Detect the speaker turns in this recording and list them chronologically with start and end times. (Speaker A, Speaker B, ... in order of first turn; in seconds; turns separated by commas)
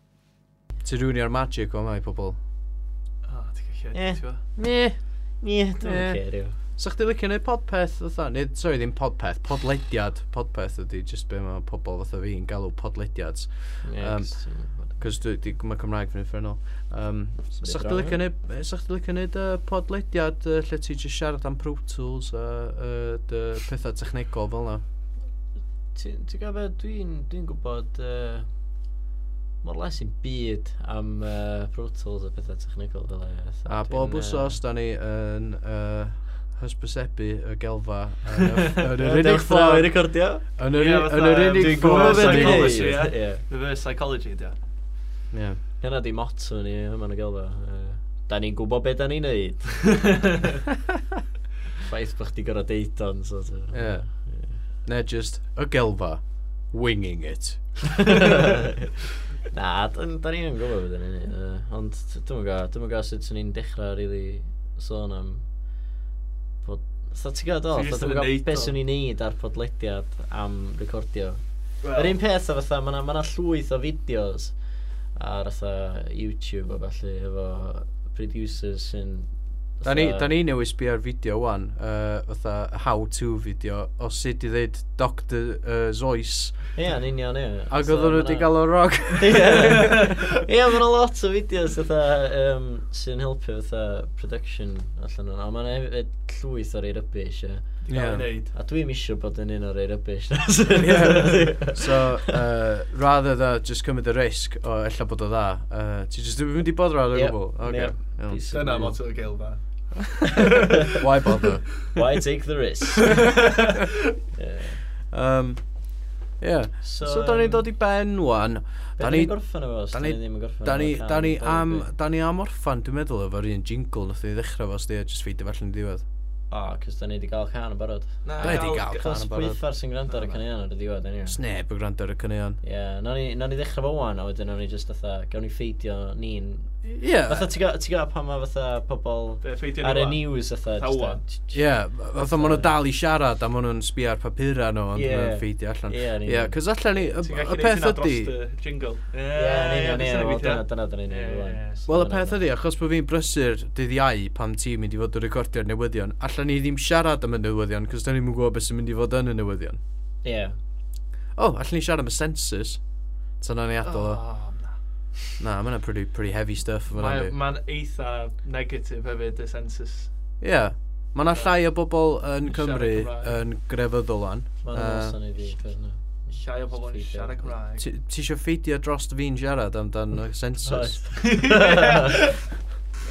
Speaker A: 0.8-2.4, Speaker B: 3.2-4.4, Speaker C: 3.9-6.6, Speaker A: 5.8-24.8, Speaker C: 13.8-15.2, Speaker C: 17.6-18.2, Speaker C: 25.9-28.5, Speaker C: 29.6-34.6, Speaker A: 33.7-43.1, Speaker C: 39.0-40.5, Speaker B: 40.8-44.5, Speaker C: 41.5-43.4, Speaker A: 45.3-45.6, Speaker C: 45.8-50.1, Speaker B: 50.0-50.5, Speaker C: 51.8-54.6, Speaker A: 53.7-54.3, Speaker A: 54.8-58.0, Speaker C: 58.0-58.9, Speaker C: 59.5-65.5, Speaker C: 66.6-71.4, Speaker B: 67.7-68.8, Speaker B: 71.8-72.2, Speaker C: 71.9-74.6, Speaker C: 75.2-80.3, Speaker A: 79.8-86.8, Speaker C: 86.8-102.4, Speaker A: 87.7-90.1, Speaker B: 89.8-90.1, Speaker B: 97.8-98.5, Speaker A: 97.9-98.3, Speaker A: 100.8-108.4, Speaker C: 107.1-109.0, Speaker B: 108.4-111.5, Speaker C: 110.5-110.9, Speaker A: 110.9-111.8, Speaker C: 111.9-113.4, Speaker B: 113.1-113.9, Speaker C: 114.3-114.8, Speaker A: 115.1-115.9, Speaker A: 116.4-126.0, Speaker C: 116.8-117.7, Speaker C: 119.0-121.9, Speaker C: 126.5-131.4, Speaker B: 128.2-129.0, Speaker A: 128.4-129.6, Speaker B: 130.1-130.4, Speaker A: 131.3-132.6, Speaker C: 132.6-142.7, Speaker A: 136.8-137.5, Speaker B: 139.4-141.2, Speaker A: 141.5-148.3, Speaker C: 144.9-146.6, Speaker B: 147.0-151.8, Speaker C: 149.3-152.4, Speaker A: 151.9-159.8, Speaker C: 160.2-160.6, Speaker A: 161.4-162.8, Speaker A: 163.4-164.2, Speaker B: 163.8-164.8, Speaker A: 165.4-167.3, Speaker B: 166.9-170.1, Speaker A: 170.4-175.2, Speaker B: 171.3-171.7, Speaker B: 172.4-173.4, Speaker C: 174.6-177.6, Speaker B: 176.3-177.8, Speaker A: 177.8-181.2, Speaker C: 180.6-182.4, Speaker B: 181.2-182.3